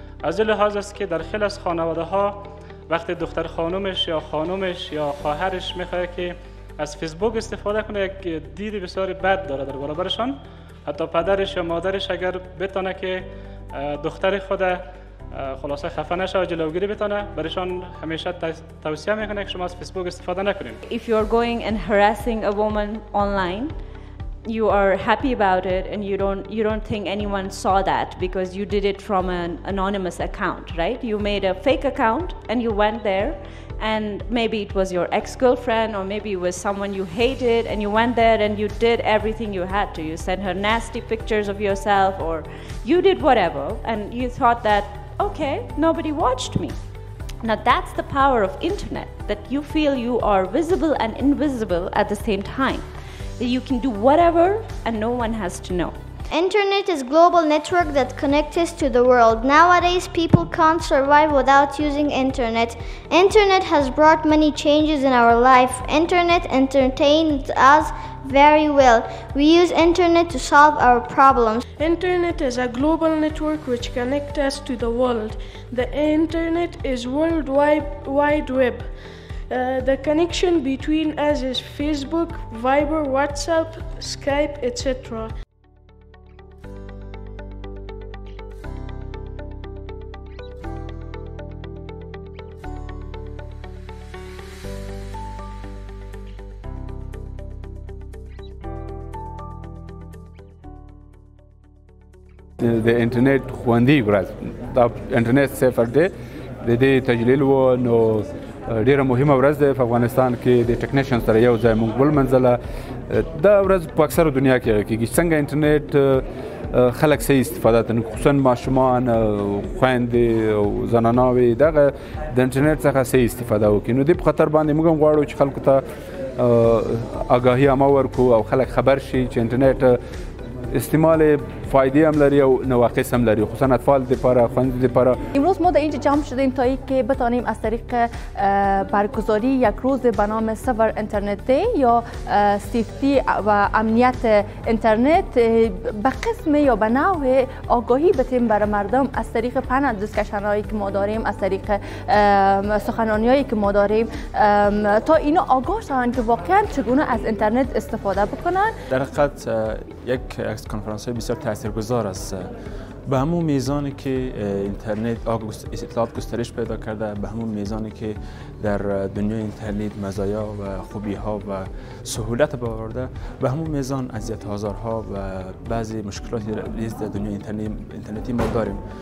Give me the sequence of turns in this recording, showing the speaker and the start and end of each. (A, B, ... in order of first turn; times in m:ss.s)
0:00.2-0:02.4 A
0:02.9-0:14.8 A
0:15.3-0:20.8 A
0:20.8-0:23.7 B
0:24.4-0:46.7 B
0:47.4-0:52.9 B
0:53.4-0:56.0 B
0:56.3-1:11.6 C
1:11.8-1:18.9 D
1:19.5-1:25.3 D
1:42.6-1:46.1 E
1:46.6-1:52.6 E
1:53.1-2:05.8 E
2:06.4-2:10.0 E
2:10.7-2:15.2 E
2:15.4-2:38.7 F
2:38.9-2:42.5 G
2:43.1-2:58.8 G